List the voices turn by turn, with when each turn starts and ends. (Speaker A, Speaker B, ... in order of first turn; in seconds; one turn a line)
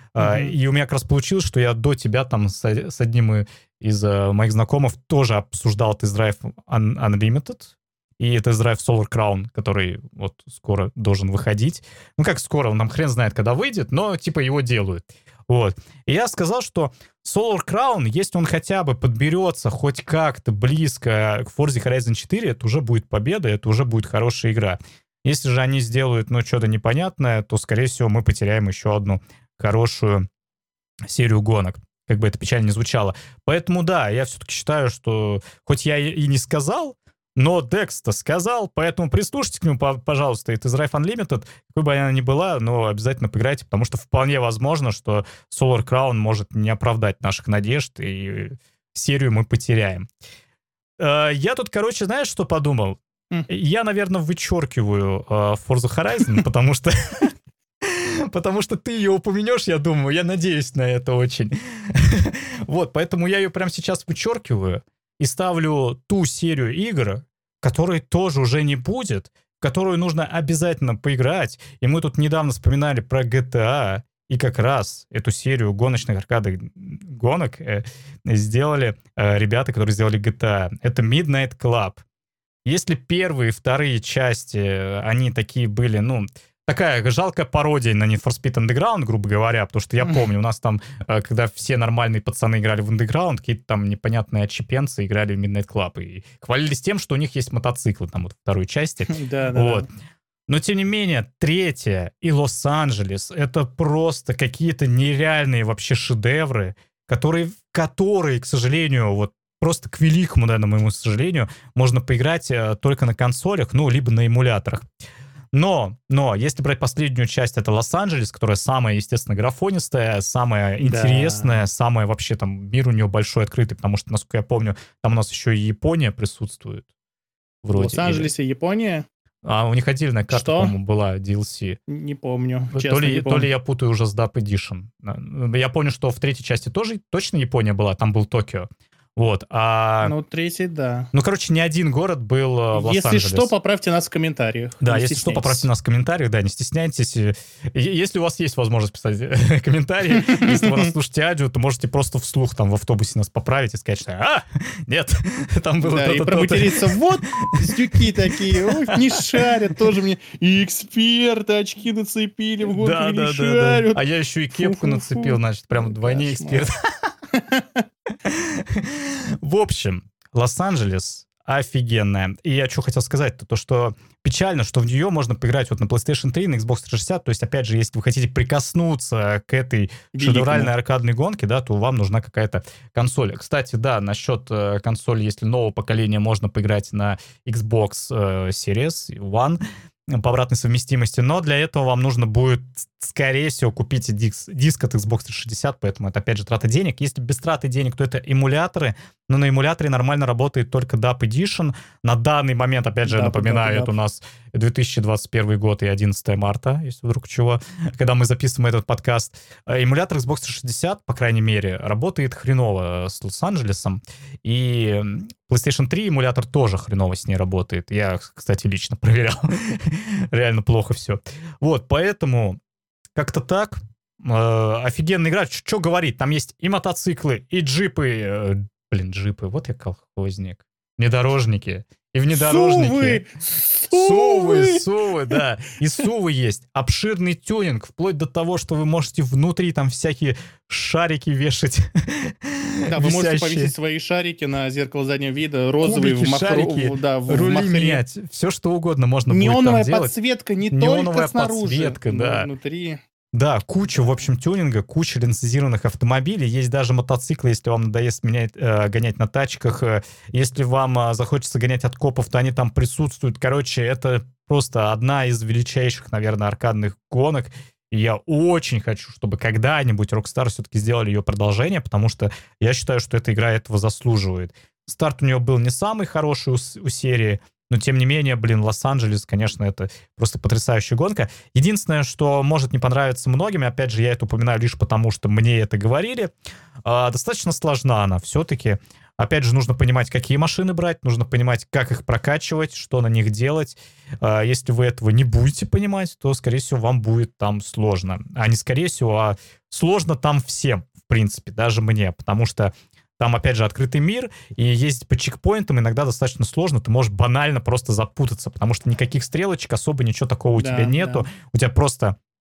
Speaker A: 0.1-30.3
Speaker B: 0.2-0.6
Speaker A: 31.1-50.1
Speaker A: 51.0-57.3
Speaker A: 57.8-82.0
Speaker A: 82.7-99.9
Speaker B: 99.1-99.9
Speaker A: 100.5-114.9
Speaker A: 115.5-126.9
Speaker B: 120.8-121.6
Speaker A: 127.6-128.3
Speaker B: 127.7-129.1
Speaker A: 129.4-131.8
Speaker B: 130.3-130.7
Speaker B: 131.9-133.5
Speaker A: 132.7-140.1
Speaker B: 140.0-141.1
Speaker A: 141.1-143.5
Speaker B: 142.7-145.7
Speaker A: 144.8-159.4
Speaker B: 150.2-150.9
Speaker B: 155.8-164.0
Speaker A: 162.7-167.1
Speaker B: 164.6-166.7
Speaker B: 167.3-167.8
Speaker A: 168.2-189.6
Speaker B: 180.1-180.7
Speaker A: 190.1-222.6
Speaker B: 203.1-203.9
Speaker A: 223.2-233.2
Speaker B: 232.3-234.8
Speaker A: 233.9-243.7
Speaker B: 242.9-248.0
Speaker A: 245.8-250.1
Speaker B: 249.3-253.0
Speaker A: 250.7-252.5
Speaker A: 253.3-286.3
Speaker B: 253.9-254.2
Speaker A: 286.9-312.2
Speaker B: 310.6-311.3